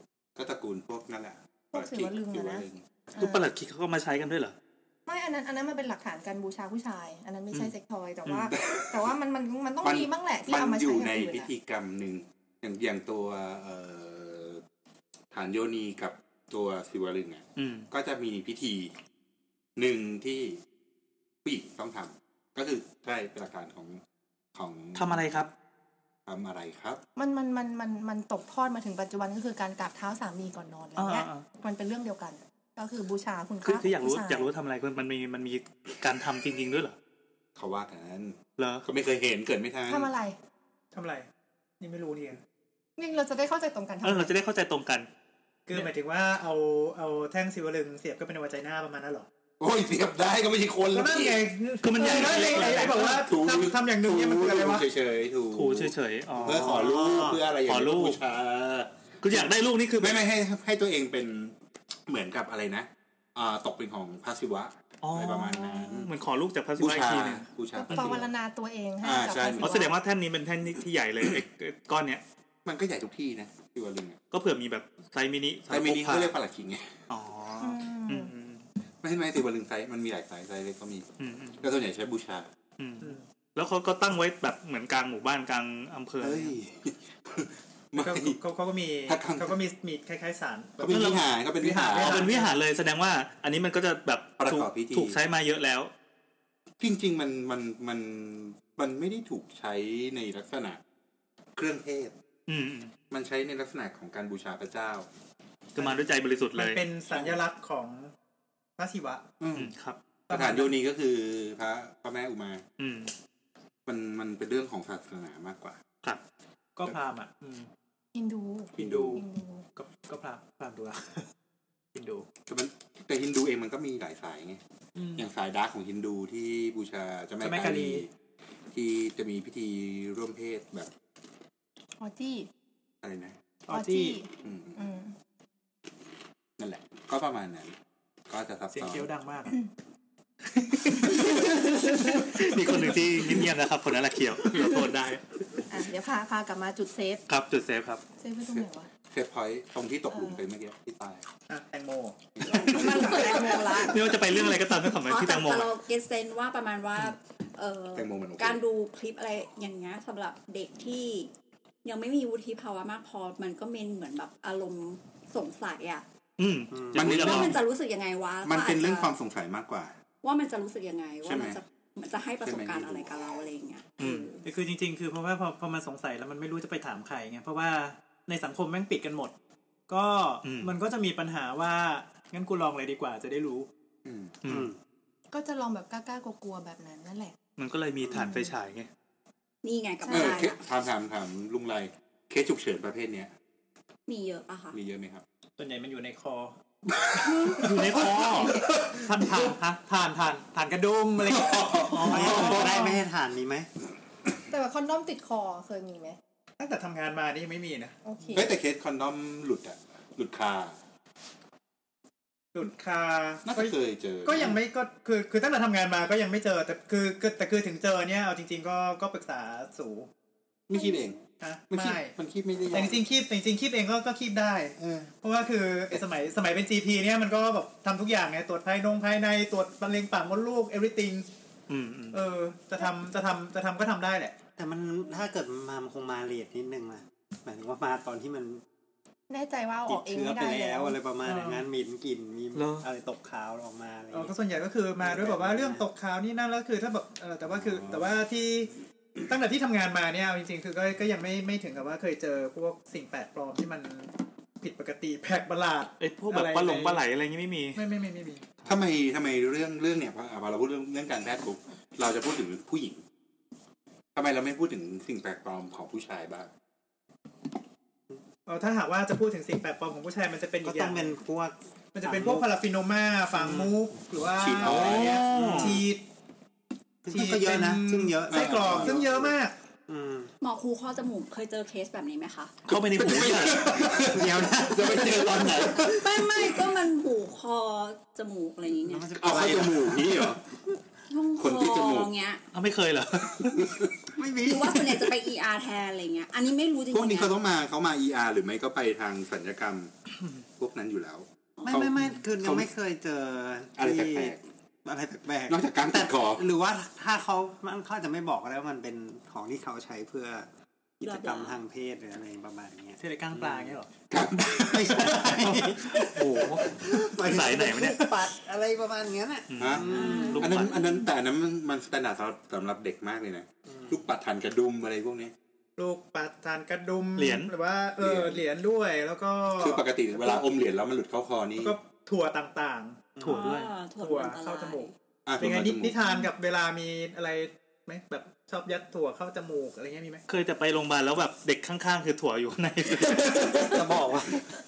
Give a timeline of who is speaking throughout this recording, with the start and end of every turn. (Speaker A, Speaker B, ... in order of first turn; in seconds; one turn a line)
Speaker A: 0.3-2.8
Speaker B: 1.7-3.5
Speaker C: 3.2-4.5
Speaker B: 5.1-11.5
Speaker C: 8.2-8.5
Speaker A: 8.5-9.1
Speaker A: 9.8-14.6
Speaker A: 15.3-18.9
Speaker C: 17.6-17.9
Speaker A: 19.8-20.6
Speaker A: 21.4-24.0
Speaker A: 24.5-25.4
Speaker C: 24.9-25.5
Speaker A: 26.3-27.0
Speaker B: 27.1-34.5
Speaker C: 31.0-31.4
Speaker C: 33.6-36.9
Speaker A: 37.5-40.1
Speaker C: 38.6-38.9
Speaker B: 39.9-40.4
Speaker D: 40.9-41.3
Speaker D: 41.8-42.4
Speaker B: 43.0-44.3
Speaker C: 44.0-45.1
Speaker D: 45.7-49.3
Speaker A: 49.6-51.4
Speaker D: 50.9-54.9
Speaker C: 51.8-53.2
Speaker A: 52.2-58.9
Speaker C: 55.5-56.9
Speaker E: 56.4-57.4
Speaker C: 57.6-58.2
Speaker C: 59.2-60.2
Speaker A: 60.0-66.1
Speaker C: 65.0-68.2
Speaker A: 66.8-68.3
Speaker B: 67.7-69.9
Speaker A: 69.0-69.8
Speaker C: 69.6-72.2
Speaker A: 72.6-74.2
Speaker C: 74.3-76.3
Speaker A: 75.7-77.0
Speaker C: 77.1-78.6
Speaker B: 77.6-78.3
Speaker A: 79.0-81.1
Speaker C: 81.2-81.6
Speaker A: 81.6-82.5
Speaker C: 82.8-86.5
Speaker A: 86.2-88.4
Speaker D: 88.0-92.6
Speaker A: 89.1-89.6
Speaker A: 90.8-92.3
Speaker C: 91.9-95.9
Speaker A: 94.4-95.2
Speaker A: 96.8-100.8
Speaker A: 101.5-102.1
Speaker C: 102.5-102.9
Speaker A: 103.1-105.1
Speaker C: 105.8-107.3
Speaker D: 105.8-108.1
Speaker D: 108.8-109.2
Speaker A: 109.4-109.7
Speaker C: 109.5-110.0
Speaker D: 110.3-110.7
Speaker A: 110.3-112.6
Speaker C: 112.8-113.1
Speaker A: 113.8-115.8
Speaker D: 116.8-117.7
Speaker B: 118.1-119.6
Speaker D: 118.7-121.2
Speaker A: 118.8-119.2
Speaker D: 121.9-122.2
Speaker A: 122.5-124.6
Speaker D: 125.0-125.2
Speaker A: 125.2-128.1
Speaker D: 127.4-128.0
Speaker A: 128.7-130.9
Speaker B: 132.0-132.5
Speaker A: 133.0-133.3
Speaker D: 133.7-134.2
Speaker B: 133.7-135.1
Speaker A: 134.4-134.8
Speaker A: 136.6-137.8
Speaker A: 138.3-139.1
Speaker D: 138.7-139.5
Speaker C: 140.7-145.2
Speaker B: 145.7-147.2
Speaker C: 147.3-148.0
Speaker B: 148.2-148.9
Speaker A: 148.5-151.3
Speaker B: 150.1-150.4
Speaker D: 151.5-152.2
Speaker A: 152.4-153.3
Speaker F: 152.4-161.3
Speaker B: 153.1-153.9
Speaker C: 153.7-155.7
Speaker A: 157.9-158.6
Speaker F: 161.8-166.0
Speaker C: 166.4-167.6
Speaker E: 166.7-167.1
Speaker A: 166.9-167.6
Speaker F: 167.0-169.1
Speaker A: 168.4-169.9
Speaker F: 170.2-174.4
Speaker A: 171.2-171.6
Speaker A: 172.4-173.1
Speaker C: 174.0-174.3
Speaker D: 174.4-179.3
Speaker D: 179.9-183.7
Speaker C: 180.4-180.7
Speaker A: 184.0-184.3
Speaker C: 184.4-184.7
Speaker E: 184.4-184.8
Speaker B: 185.3-187.3
Speaker C: 187.6-188.9
Speaker B: 188.1-188.5
Speaker F: 189.6-190.6
Speaker B: 190.0-190.5
Speaker A: 190.1-193.3
Speaker F: 194.1-194.8
Speaker A: 194.7-195.2
Speaker D: 195.6-196.5
Speaker A: 197.2-197.6
Speaker D: 197.2-203.0
Speaker C: 197.5-198.6
Speaker A: 201.2-202.7
Speaker C: 201.9-202.3
Speaker E: 202.0-203.7
Speaker B: 204.5-206.2
Speaker D: 206.6-208.0
Speaker B: 208.0-208.5
Speaker A: 208.3-210.8
Speaker D: 212.5-213.7
Speaker A: 213.4-214.6
Speaker D: 214.2-220.1
Speaker A: 220.7-221.2
Speaker B: 220.8-221.0
Speaker D: 221.4-222.1
Speaker A: 221.7-223.0
Speaker D: 222.7-231.2
Speaker A: 224.8-225.1
Speaker C: 231.7-232.2
Speaker D: 232.1-234.3
Speaker E: 234.6-238.6
Speaker B: 239.3-241.0
Speaker E: 239.9-244.3
Speaker D: 241.2-241.7
Speaker C: 242.5-242.9
Speaker D: 244.1-248.7
Speaker E: 245.0-245.8
Speaker D: 249.3-257.0
Speaker C: 256.0-257.8
Speaker D: 257.8-258.4
Speaker A: 258.6-263.0
Speaker A: 264.1-266.5
Speaker D: 268.5-271.1
Speaker E: 270.6-272.5
Speaker D: 271.9-276.0
Speaker E: 273.3-273.8
Speaker A: 274.4-275.3
Speaker C: 274.6-275.8
Speaker E: 274.6-275.9
Speaker E: 277.0-279.3
Speaker D: 277.1-279.5
Speaker A: 278.3-279.0
Speaker E: 279.9-280.3
Speaker F: 280.4-282.6
Speaker C: 282.6-283.7
Speaker A: 282.7-286.1
Speaker E: 283.6-285.6
Speaker F: 285.2-289.1
Speaker E: 288.8-290.3
Speaker A: 289.2-290.4
Speaker F: 291.1-292.4
Speaker A: 291.4-292.1
Speaker C: 292.5-293.6
Speaker A: 293.4-293.9
Speaker E: 294.1-295.1
Speaker F: 294.4-297.3
Speaker A: 296.9-299.9
Speaker A: 300.6-302.7
Speaker E: 301.6-310.5
Speaker A: 303.8-304.4
Speaker A: 305.5-306.4
Speaker E: 311.0-313.8
Speaker F: 311.0-311.6
Speaker D: 313.0-313.9
Speaker A: 314.1-315.3
Speaker E: 314.4-320.6
Speaker D: 315.1-316.1
Speaker C: 315.9-318.0
Speaker C: 319.5-320.8
Speaker A: 319.6-325.3
Speaker F: 319.9-321.0
Speaker D: 325.8-329.8
Speaker C: 327.2-327.5
Speaker A: 328.0-328.4
Speaker A: 329.6-331.8
Speaker D: 331.6-340.2
Speaker E: 333.2-333.5
Speaker F: 333.2-334.9
Speaker C: 333.2-333.6
Speaker A: 335.2-336.0
Speaker C: 340.3-343.8
Speaker E: 342.9-344.4